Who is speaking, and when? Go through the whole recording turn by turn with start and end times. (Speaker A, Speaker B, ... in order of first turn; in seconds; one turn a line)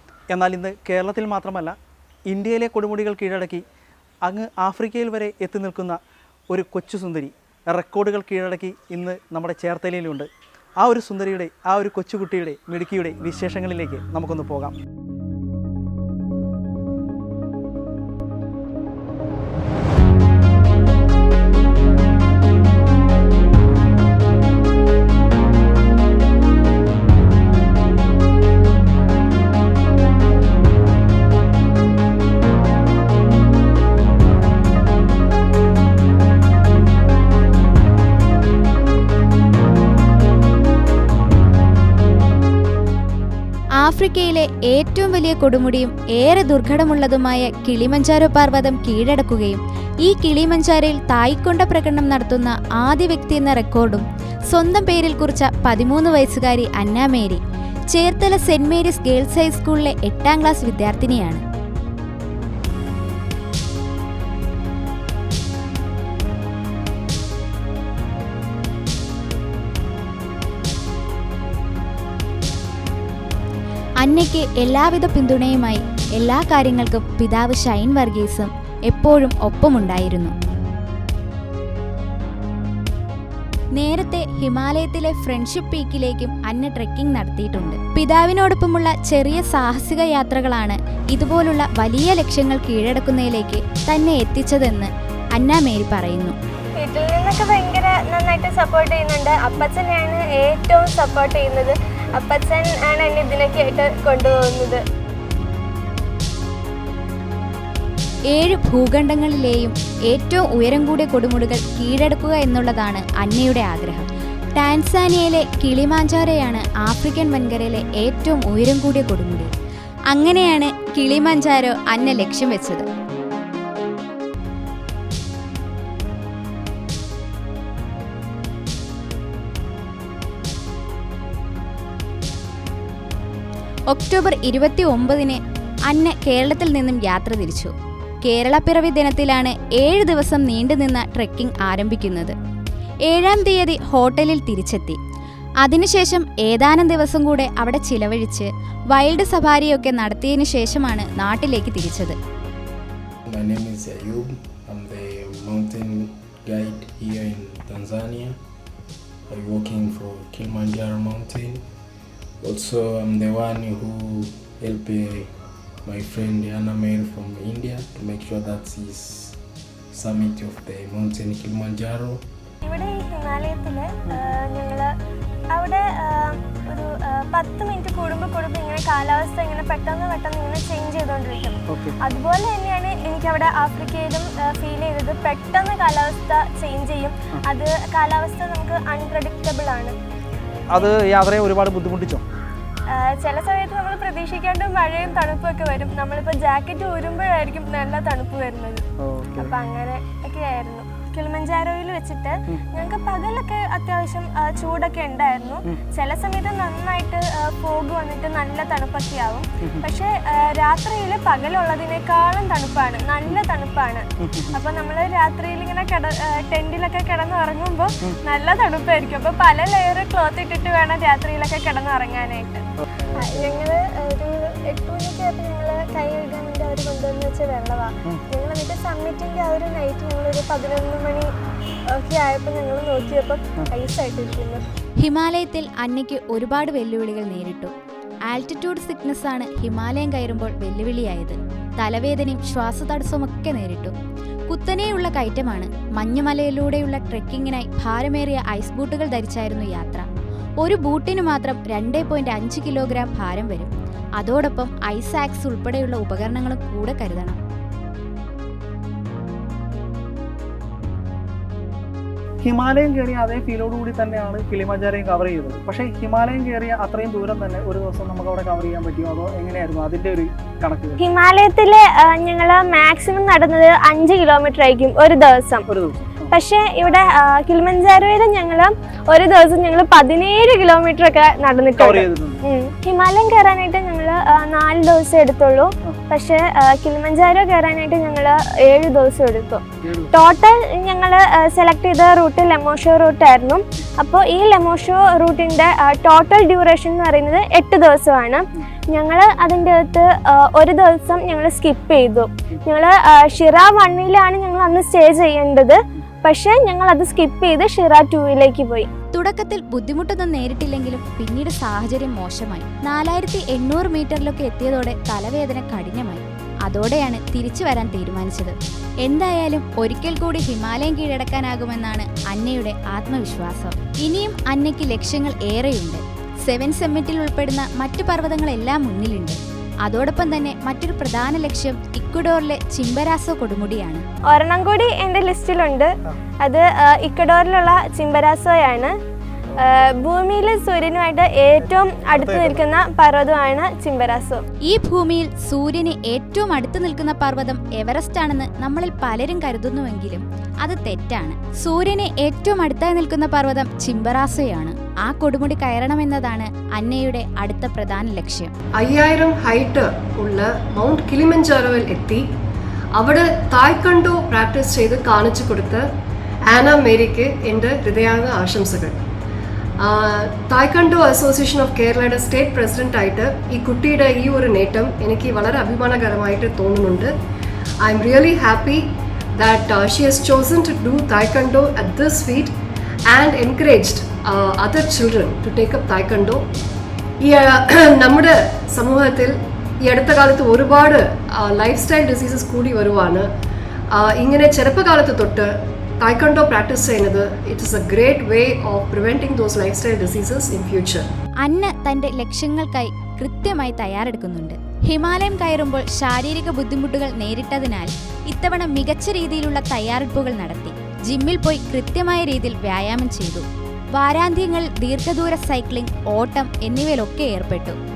Speaker A: 0.3-1.8
Speaker A: 2.3-3.6
Speaker A: 4.2-6.0
Speaker A: 6.5-14.7
Speaker B: 43.8-57.4
Speaker B: 57.9-61.4
Speaker B: 74.0-80.3
Speaker B: 83.7-96.3
Speaker C: 96.8-104.8
Speaker B: 108.3-119.5
Speaker B: 120.1-122.8
Speaker B: 133.9-137.7
Speaker B: 138.2-142.3
Speaker B: 143.1-145.0
Speaker B: 145.6-152.2
Speaker D: 153.3-158.4
Speaker D: 159.3-161.6
Speaker D: 162.4-165.3
Speaker D: 165.8-169.4
Speaker D: 169.9-172.2
Speaker C: 172.6-174.9
Speaker C: 175.5-189.9
Speaker A: 181.7-181.9
Speaker A: 190.7-192.2
Speaker C: 192.9-198.8
Speaker A: 199.0-199.5
Speaker C: 199.4-222.6
Speaker A: 214.2-214.5
Speaker C: 223.2-231.3
Speaker C: 231.9-234.6
Speaker B: 235.0-237.7
Speaker B: 238.3-243.9
Speaker B: 244.5-250.1
Speaker B: 250.6-257.4
Speaker A: 262.4-271.0
Speaker C: 271.0-275.6
Speaker A: 275.7-276.3
Speaker C: 276.3-308.9
Speaker A: 281.8-282.4
Speaker A: 289.8-290.1
Speaker B: 309.1-334.0
Speaker C: 334.3-335.9
Speaker C: 336.4-338.9
Speaker C: 339.6-344.4
Speaker A: 342.1-342.6
Speaker B: 344.6-358.5
Speaker E: 358.8-362.3
Speaker E: 362.9-365.9
Speaker E: 366.5-369.0
Speaker E: 369.8-377.1
Speaker E: 377.8-382.5
Speaker E: 383.1-386.4
Speaker E: 387.2-393.3
Speaker E: 393.9-401.1
Speaker B: 401.4-417.8